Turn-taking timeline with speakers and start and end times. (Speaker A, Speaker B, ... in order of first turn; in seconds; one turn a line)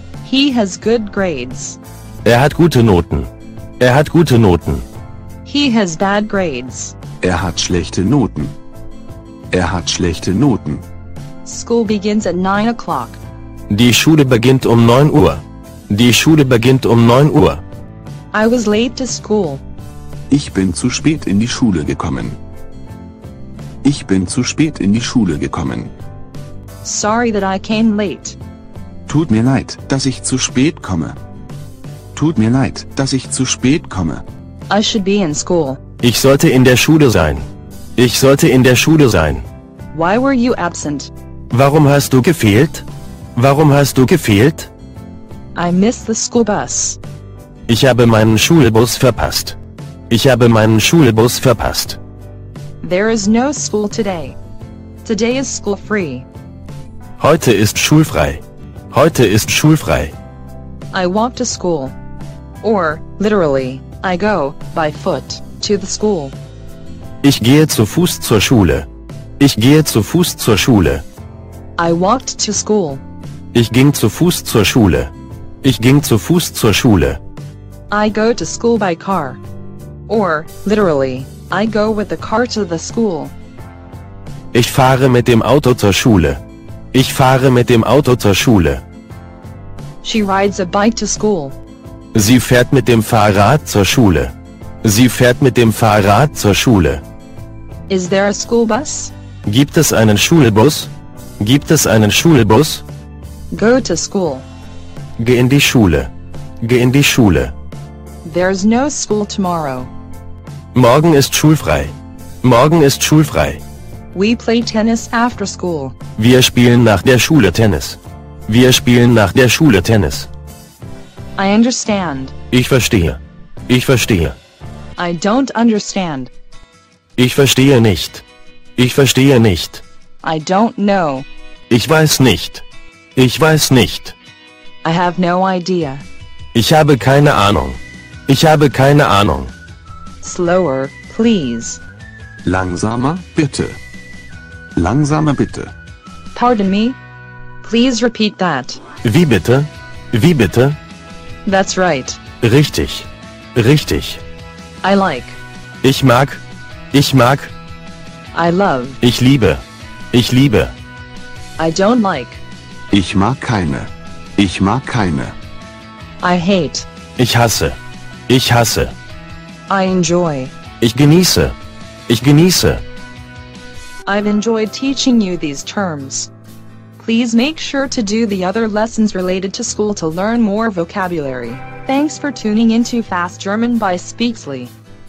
Speaker A: 0.2-1.8
Speaker B: 2.2-4.8
Speaker A: 5.5-7.0
Speaker C: 7.2-8.5
Speaker C: 9.5-10.8
Speaker A: 11.4-13.2
Speaker B: 13.7-17.6
Speaker A: 18.3-19.6
Speaker C: 20.3-22.4
Speaker C: 23.8-25.9
Speaker A: 26.8-28.4
Speaker C: 29.1-31.2
Speaker C: 32.1-34.2
Speaker A: 34.7-35.8
Speaker B: 36.0-39.5
Speaker A: 39.9-41.1
Speaker B: 41.5-44.7
Speaker A: 45.5-47.0
Speaker B: 47.7-49.6
Speaker B: 50.1-52.0
Speaker A: 52.8-54.4
Speaker A: 55.0-56.3
Speaker B: 57.2-60.1
Speaker A: 60.9-62.0
Speaker A: 62.6-66.3
Speaker B: 67.2-68.9
Speaker B: 69.4-71.0
Speaker A: 71.8-73.0
Speaker B: 73.5-75.1
Speaker B: 75.6-77.2
Speaker A: 77.9-79.4
Speaker A: 80.1-83.3
Speaker B: 84.5-86.4
Speaker B: 86.9-88.8
Speaker A: 90.0-91.6
Speaker B: 92.1-94.3
Speaker B: 94.8-97.0
Speaker A: 97.9-99.1
Speaker B: 99.5-102.8
Speaker A: 103.5-104.5
Speaker B: 105.2-106.1
Speaker B: 106.6-107.5
Speaker A: 108.2-109.9
Speaker B: 110.7-113.6
Speaker A: 114.1-116.0
Speaker B: 116.2-120.3
Speaker A: 121.4-122.3
Speaker B: 122.5-124.4
Speaker A: 125.0-126.3
Speaker B: 127.2-128.2
Speaker B: 128.8-129.8
Speaker A: 130.2-131.3
Speaker B: 131.7-132.6
Speaker B: 133.2-134.2
Speaker A: 134.8-136.1
Speaker B: 136.5-139.5
Speaker A: 140.2-141.8
Speaker C: 142.4-143.8
Speaker C: 144.8-145.7
Speaker A: 146.3-147.0
Speaker A: 147.6-148.8
Speaker B: 149.0-150.8
Speaker A: 151.4-152.2
Speaker B: 152.4-154.2
Speaker A: 154.8-155.4
Speaker B: 155.8-157.5
Speaker A: 158.3-159.0
Speaker B: 159.0-160.7
Speaker A: 161.6-162.4
Speaker C: 162.9-165.3
Speaker A: 166.2-166.9
Speaker B: 167.2-167.8
Speaker B: 168.3-168.9
Speaker A: 169.7-170.5
Speaker B: 170.8-171.6
Speaker B: 172.1-172.8
Speaker A: 174.1-176.3
Speaker A: 177.0-184.7